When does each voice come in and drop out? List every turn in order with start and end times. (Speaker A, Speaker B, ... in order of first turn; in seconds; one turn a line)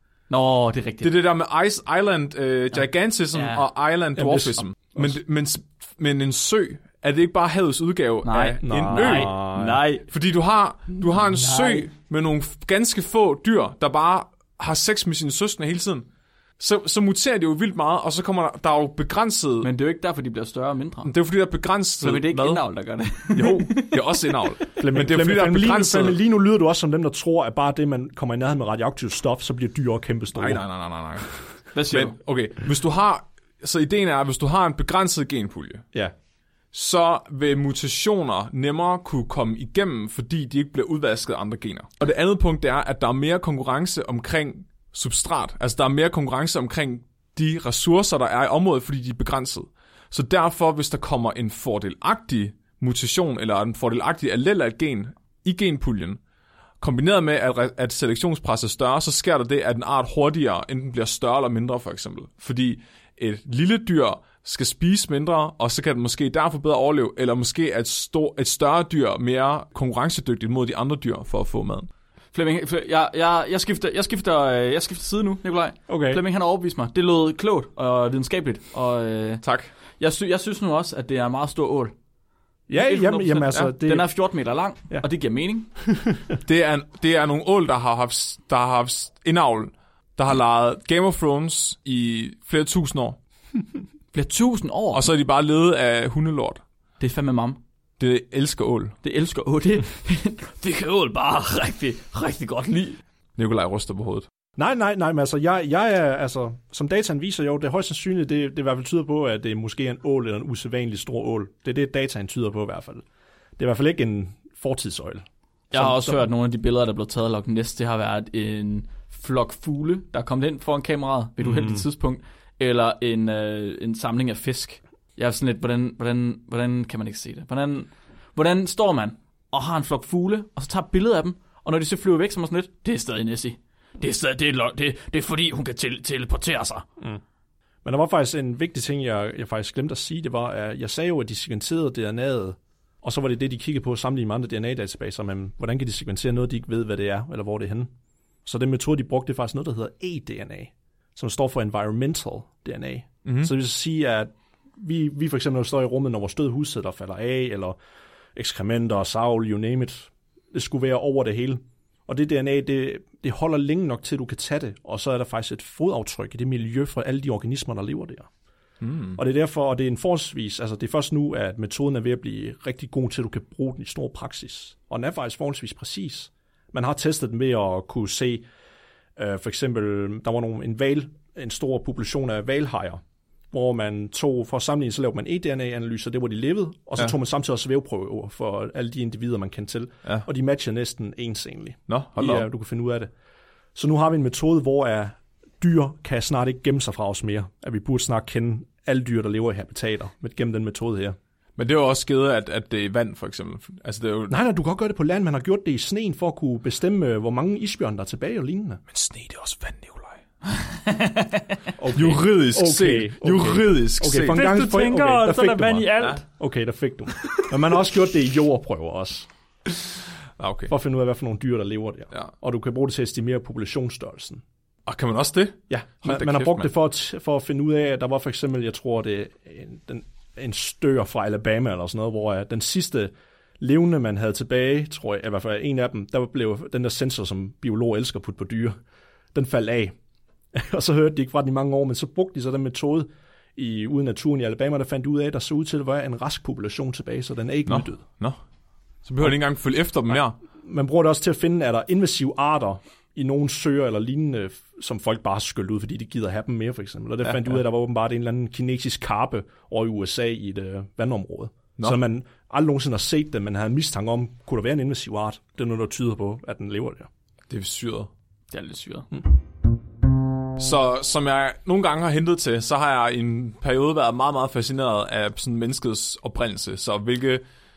Speaker A: 0.3-1.1
Speaker B: 1.0-9.3
Speaker A: 3.3-3.6
Speaker C: 4.1-5.2
Speaker A: 8.2-10.0
Speaker C: 8.6-9.8
Speaker B: 10.1-16.1
Speaker A: 11.1-11.9
Speaker B: 16.6-19.7
Speaker A: 19.6-21.1
Speaker B: 21.0-22.6
Speaker A: 22.0-24.2
Speaker B: 23.2-26.2
Speaker C: 24.8-30.6
Speaker B: 30.3-35.9
Speaker A: 31.7-32.1
Speaker B: 36.7-56.2
Speaker B: 56.8-71.9
Speaker A: 72.3-79.4
Speaker C: 75.9-76.2
Speaker B: 79.4-79.7
Speaker A: 80.0-81.9
Speaker C: 82.7-84.1
Speaker A: 82.8-85.7
Speaker C: 85.8-86.4
Speaker B: 86.4-93.2
Speaker A: 94.1-95.0
Speaker B: 94.9-96.6
Speaker A: 97.0-97.6
Speaker B: 98.0-98.9
Speaker A: 99.0-103.0
Speaker B: 103.4-104.3
Speaker C: 104.6-113.0
Speaker C: 113.6-116.2
Speaker A: 115.7-136.8
Speaker C: 121.4-121.8
Speaker C: 137.8-147.9
Speaker C: 148.4-157.8
Speaker B: 153.2-153.5
Speaker C: 158.3-168.3
Speaker B: 168.8-169.2
Speaker C: 169.2-178.4
Speaker C: 179.2-183.0
Speaker C: 183.5-193.1
Speaker B: 191.9-192.5
Speaker C: 193.7-201.2
Speaker B: 201.6-204.3
Speaker C: 204.3-208.8
Speaker B: 208.9-210.2
Speaker A: 210.6-211.4
Speaker C: 211.8-219.3
Speaker B: 211.9-214.5
Speaker A: 214.3-216.2
Speaker B: 220.4-220.7
Speaker C: 220.7-224.4
Speaker B: 224.8-226.7
Speaker C: 225.7-238.8
Speaker C: 239.3-239.9
Speaker C: 240.5-248.0
Speaker B: 247.7-248.4
Speaker B: 249.1-250.4
Speaker C: 250.1-267.1
Speaker B: 267.5-268.1
Speaker A: 268.5-269.1
Speaker B: 270.6-277.4